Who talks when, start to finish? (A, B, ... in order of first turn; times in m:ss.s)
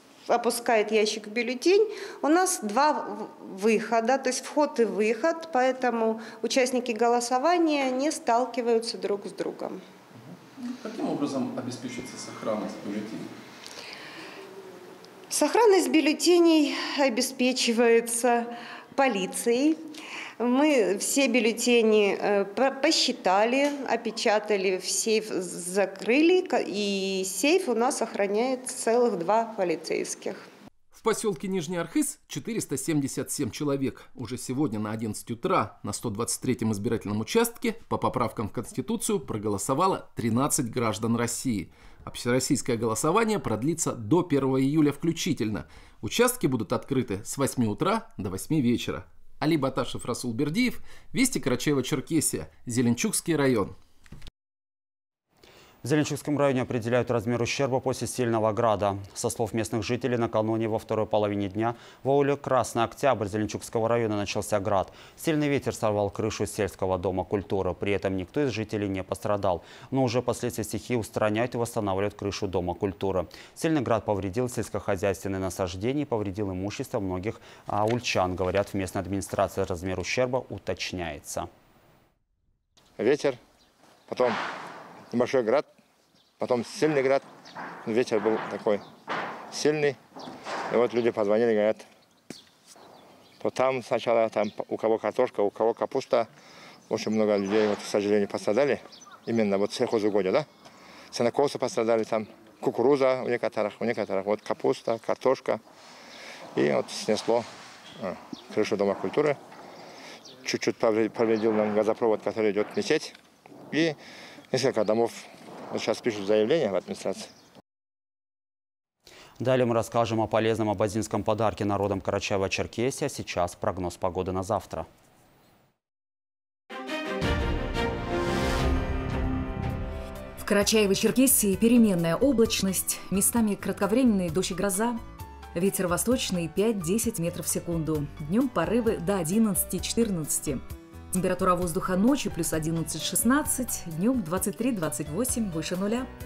0:00.2-0:09.8 A
0:11.6-0:12.9 B
0:15.3-0:19.8 A
0:20.4-0:30.4 A
0:30.9-0:53.7 B
0:55.8-1:21.5 C
1:23.0-1:23.4 D
1:24.1-1:24.4 D
1:25.1-1:25.6 D
1:26.4-1:27.2 D
1:27.8-1:28.8 D
1:29.5-1:30.0 D
1:30.7-1:31.8 D
1:33.4-1:36.3 D
1:36.9-1:40.5 D
1:41.1-1:45.6 D
1:46.6-1:47.4 D
1:48.0-1:49.4 D
1:50.4-1:53.1 D
1:54.5-1:57.3 D
1:59.4-2:04.9 C
2:10.4-2:15.0 E
2:15.5-2:26.1 E